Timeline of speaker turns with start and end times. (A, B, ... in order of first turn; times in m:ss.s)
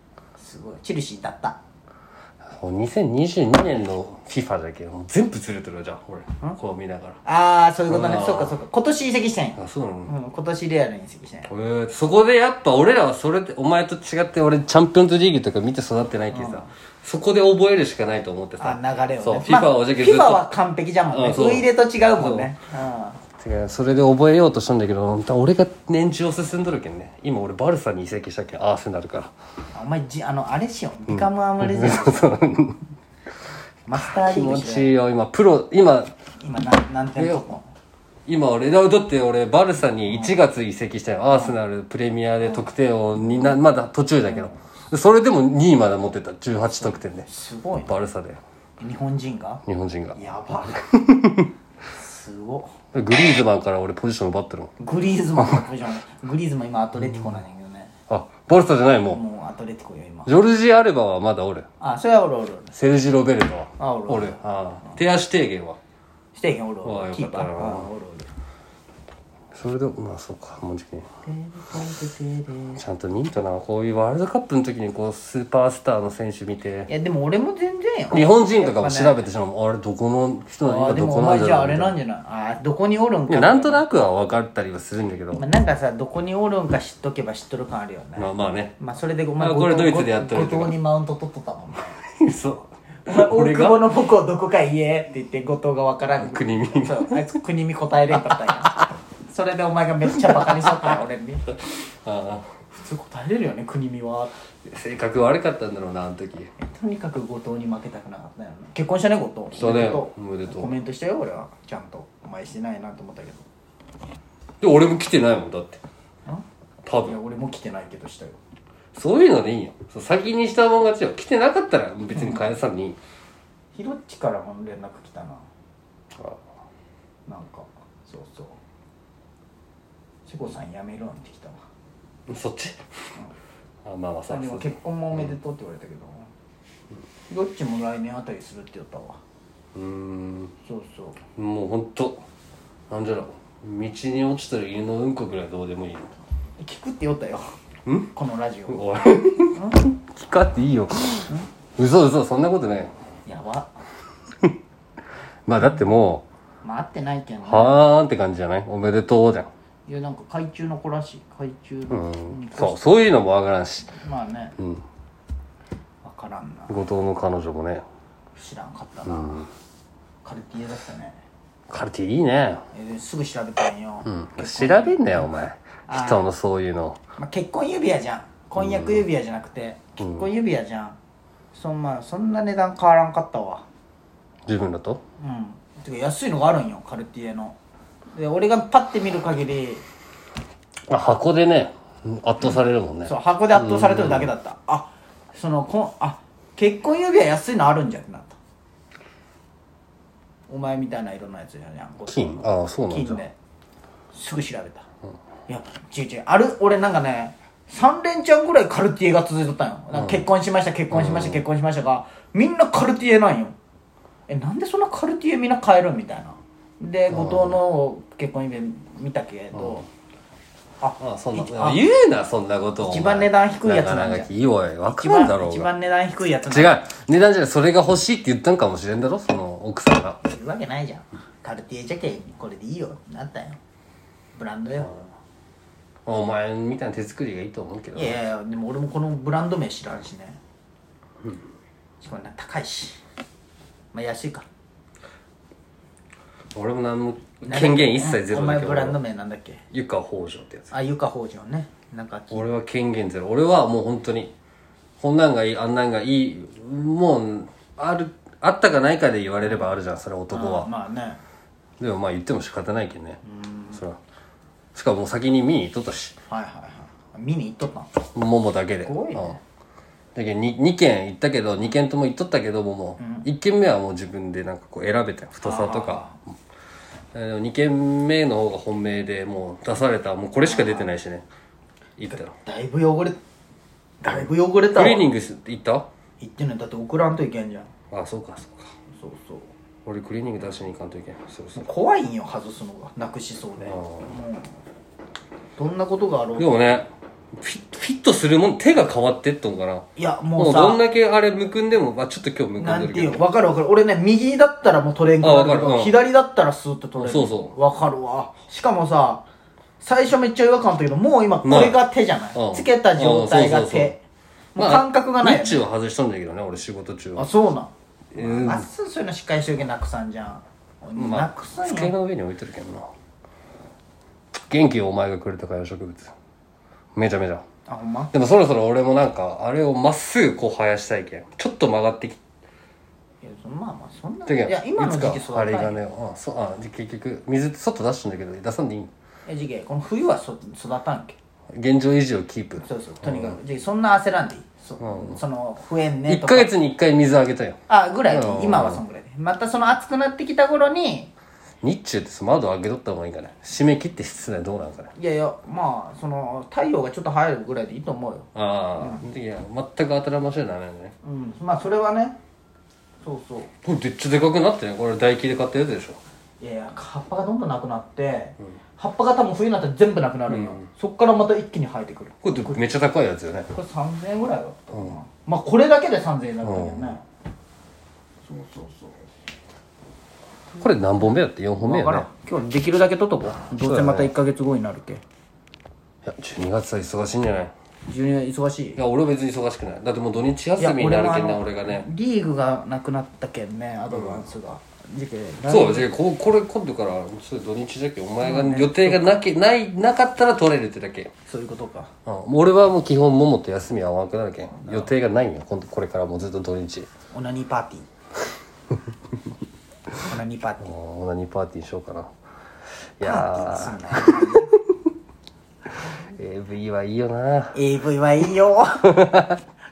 0:00.4-0:01.6 A
0:02.4-0:07.2 B
0:07.2-0:11.5 A
0:07.9-0:08.6 B
0:09.6-0:10.1 B
0:11.5-0:20.5 B
0:16.3-0:16.7 A
0:18.6-0:23.2 A
0:21.1-0:22.5 B
0:23.4-0:29.3 B
0:29.7-0:32.4 A
0:31.1-0:32.8 B
0:33.9-0:34.9 A
0:33.9-0:36.1 B
0:36.4-0:37.7 A
0:37.2-0:37.4 B
0:38.3-0:47.3 B
0:40.1-0:40.4 A
0:41.3-0:41.6 A
0:44.3-0:44.7 A
0:46.8-0:48.0 A
0:47.9-0:48.4 B
0:48.8-0:49.6 A
0:49.7-0:50.2 B
0:50.2-0:50.8 A
0:50.7-0:51.5 B
0:51.9-0:52.8 A
0:52.9-0:54.7 B
0:54.8-0:57.9 A
0:55.4-0:55.7 B
0:58.1-0:59.2 B
0:59.1-1:00.3 A
1:00.3-1:01.6 B
1:01.8-1:02.7 A
1:02.7-1:05.8 B
1:03.8-1:04.4 A
1:06.3-1:08.3 A
1:06.8-1:07.9 B
1:09.5-1:11.1 B
1:11.2-1:12.8 A
1:12.8-1:16.9 B
1:16.9-1:19.2 A
1:18.1-1:22.0 B
1:20.6-1:23.9 A
1:23.3-1:25.4 B
1:25.3-1:32.0 A
1:28.2-1:28.8 B
1:29.4-1:30.8 B
1:32.1-1:34.0 B
1:33.1-1:41.5 A
1:36.2-1:37.3 B
1:38.1-1:38.9 B
1:40.2-1:40.9 B
1:41.5-1:42.5 B
1:42.7-1:44.3 A
1:44.7-1:46.5 B
1:46.6-1:53.4 A
1:49.5-1:50.7 B
1:54.6-1:55.8 B
1:56.3-1:58.4 A
1:56.8-1:57.2 B
1:58.9-2:03.0 B
2:02.1-2:02.5 A
2:03.7-2:05.4 A
2:07.3-2:08.6 A
2:10.3-2:11.6 A
2:12.3-2:12.8 B
2:13.8-2:15.4 B
2:14.3-2:16.3 A
2:17.3-2:19.2 A
2:19.8-2:20.5 B
2:20.6-2:21.2 A
2:21.4-2:22.2 B
2:22.9-2:26.1 B
2:26.6-2:27.5 A
2:27.9-2:28.1 B
2:28.1-2:29.8 A
2:28.7-2:32.9 B
2:33.3-2:33.7 A
2:35.5-2:36.3 B
2:36.6-2:37.8 A
2:37.4-2:39.5 B
2:39.9-2:42.8 A
2:41.9-2:43.9 B
2:44.0-2:44.6 A
2:44.6-2:44.8 B
2:46.0-2:46.8 A
2:46.7-2:47.8 B
2:48.4-2:49.5 A
2:49.1-2:49.5 B
2:50.2-2:51.2 A
2:51.7-2:52.6 B
2:52.7-2:55.3 A
2:54.0-2:57.0 B
2:55.9-2:56.3 A
2:57.2-3:01.0 A
2:58.6-2:59.1 B
3:00.0-3:00.3 B
3:01.5-3:03.6 A
3:04.5-3:05.0 B
3:05.2-3:07.6 A
3:08.1-3:09.8 A
3:10.9-3:14.3 B
3:13.1-3:18.4 A
3:20.5-3:23.3 A
3:22.1-3:23.2 B
3:24.1-3:24.8 A
3:25.5-3:33.6 A
3:29.9-3:30.3 B
3:30.9-3:31.4 B
3:34.3-3:39.9 A
3:37.1-3:37.6 B
3:39.6-3:39.8 B
3:40.8-3:41.8 A
3:41.0-3:45.7 B
3:42.8-3:44.3 A
3:44.9-3:46.8 A
3:46.5-3:50.2 B
3:50.2-3:53.6 A
3:54.4-3:55.0 A
3:56.1-3:58.2 B
3:58.0-4:00.4 A
4:02.0-4:03.0 A
4:03.9-4:04.5 A
4:06.6-4:09.0 B
4:07.4-4:09.6 A
4:09.7-4:10.7 B
4:10.7-4:12.5 A
4:12.3-4:14.3 B
4:15.0-4:20.7 B
4:20.3-4:21.2 A
4:21.8-4:23.2 B
4:23.2-4:23.8 A
4:24.8-4:26.2 B
4:26.3-4:27.9 A
4:28.2-4:29.4 B
4:28.8-4:29.4 A
4:30.2-4:36.1 B
4:33.0-4:33.3 A
4:35.4-4:36.2 A
4:37.1-4:41.3 B
4:40.4-4:40.9 A
4:42.0-4:42.3 B
4:42.1-4:43.2 A
4:44.0-4:45.1 A
4:44.1-4:45.9 B
4:46.2-4:47.7 A
4:47.9-4:48.7 B
4:49.0-4:49.5 A
4:49.8-4:51.7 B
4:51.6-4:54.5 A
4:53.6-4:54.1 B
4:55.6-4:56.6 A
4:56.4-4:59.9 B
5:00.0-5:00.8 A
5:00.4-5:03.2 B
5:02.6-5:09.3 A
5:05.2-5:06.0 B
5:07.0-5:07.6 B
5:09.8-5:14.0 A
5:11.4-5:11.8 B
5:12.4-5:14.0 B
5:14.6-5:15.7 A
5:14.6-5:17.3 B
5:17.2-5:22.0 A
5:18.1-5:18.7 B
5:21.0-5:22.9 B
5:24.3-5:26.1 B
5:27.0-5:27.4 B
5:27.7-5:28.1 A
5:28.1-5:32.2 B
5:33.2-5:35.8 A
5:34.3-5:38.9 B
5:39.3-5:41.2 A
5:41.5-5:43.4 B
5:42.6-5:46.5 A
5:44.8-5:45.2 B
5:46.1-5:47.6 B
5:47.7-5:51.1 A
5:48.1-5:48.8 B
5:51.6-5:54.9 B
5:55.0-5:59.1 A
5:58.4-6:00.9 B
6:01.0-6:02.2 A
6:03.0-6:03.5 A
6:03.6-6:06.0 B
6:06.4-6:12.6 A
6:10.3-6:10.6 B
6:12.2-6:13.5 B
6:13.5-6:17.0 A
6:16.4-6:17.0 B
6:18.3-6:19.0 A
6:20.6-6:22.1 B
6:21.6-6:25.0 A
6:23.6-6:24.1 B
6:26.0-6:27.5 B
6:27.9-6:28.8 A
6:28.8-6:31.9 B
6:30.6-6:35.9 A
6:33.9-6:34.3 B
6:35.4-6:41.1 B
6:38.2-6:39.1 A
6:41.3-6:41.9 A
6:42.1-6:46.9 B
6:44.6-6:44.9 A
6:47.1-6:47.9 A
6:50.0-6:50.7 A
6:50.6-6:52.1 B
6:53.0-6:54.8 B
6:53.0-6:54.5 A
6:56.1-6:57.6 B
6:57.5-6:59.1 A
6:58.8-6:59.4 B